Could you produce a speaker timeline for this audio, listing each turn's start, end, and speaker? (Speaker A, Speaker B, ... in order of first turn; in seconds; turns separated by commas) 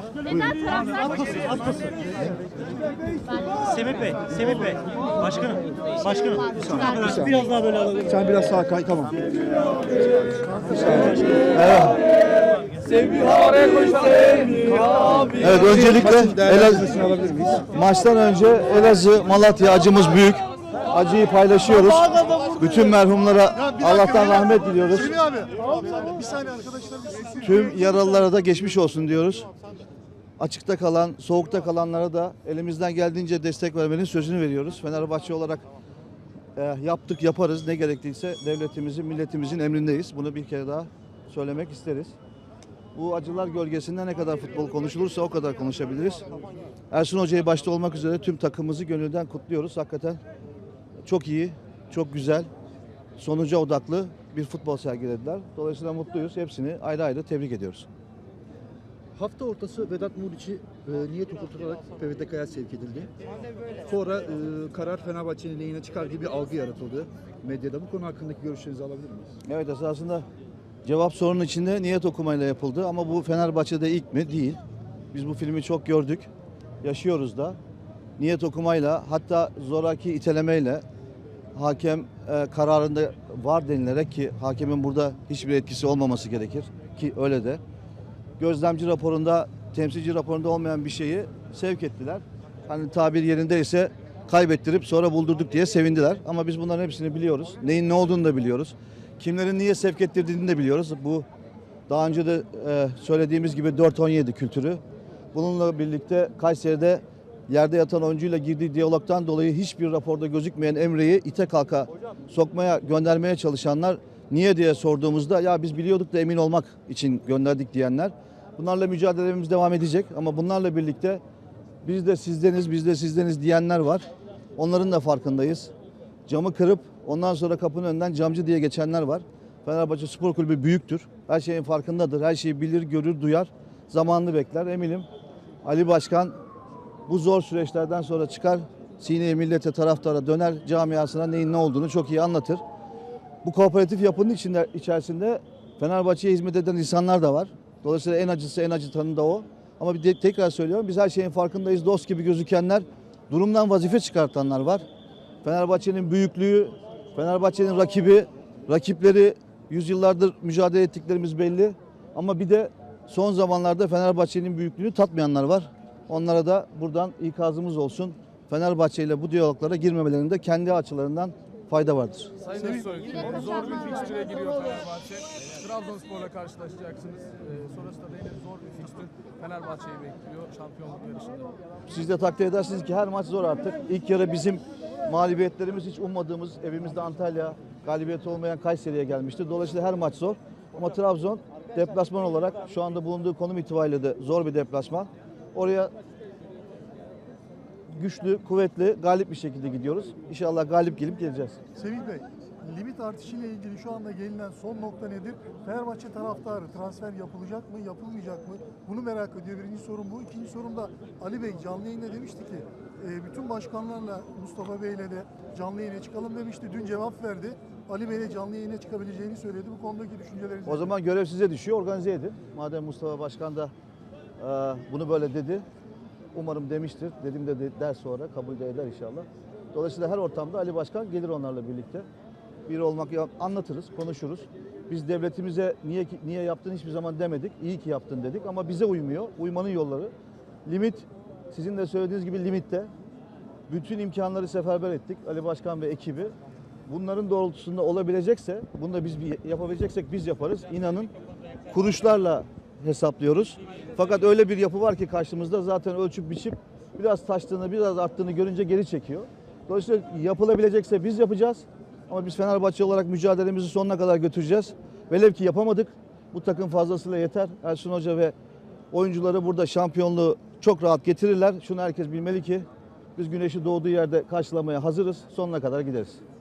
Speaker A: 0.2-2.4, Speaker B: 0.8-2.0, Speaker B: 3.3-8.0, Speaker A: 6.5-11.5, Speaker C: 11.5-12.0, Speaker A: 13.3-17.7, Speaker C: 15.3-16.9, Speaker C: 17.7-25.2, Speaker D: 23.6-27.8, Speaker C: 27.4-29.5, Speaker C: 30.4-35.6, Speaker C: 36.5-42.1, Speaker C: 42.9-46.3, Speaker C: 46.9-50.2, Speaker C: 51.0-52.5, Speaker C: 53.2-57.9, Speaker A: 59.1-63.1, Speaker A: 63.8-69.3, Speaker C: 69.4-70.2, Speaker C: 70.8-74.6, Speaker C: 75.1-76.3, Speaker C: 76.8-77.6, Speaker C: 78.2-80.8, Speaker C: 81.5-87.6, Speaker C: 88.4-101.2, Speaker C: 101.9-104.8, Speaker C: 105.3-121.2, Speaker C: 121.8-124.0, Speaker C: 124.6-125.7, Speaker C: 126.3-135.1, Speaker C: 135.6-136.3, Speaker C: 137.1-142.6, Speaker C: 143.4-154.8, Speaker C: 155.4-172.3, Speaker E: 172.4-181.5, Speaker C: 181.9-195.9, Speaker C: 197.9-201.6, Speaker D: 201.8-220.9, Speaker C: 220.7-223.7, Speaker C: 224.4-225.6, Speaker C: 226.3-232.1, Speaker C: 232.7-240.1, Speaker C: 240.6-242.9, Speaker C: 243.7-246.3, Speaker C: 246.9-251.1, Speaker C: 251.7-268.3, Speaker C: 268.9-276.2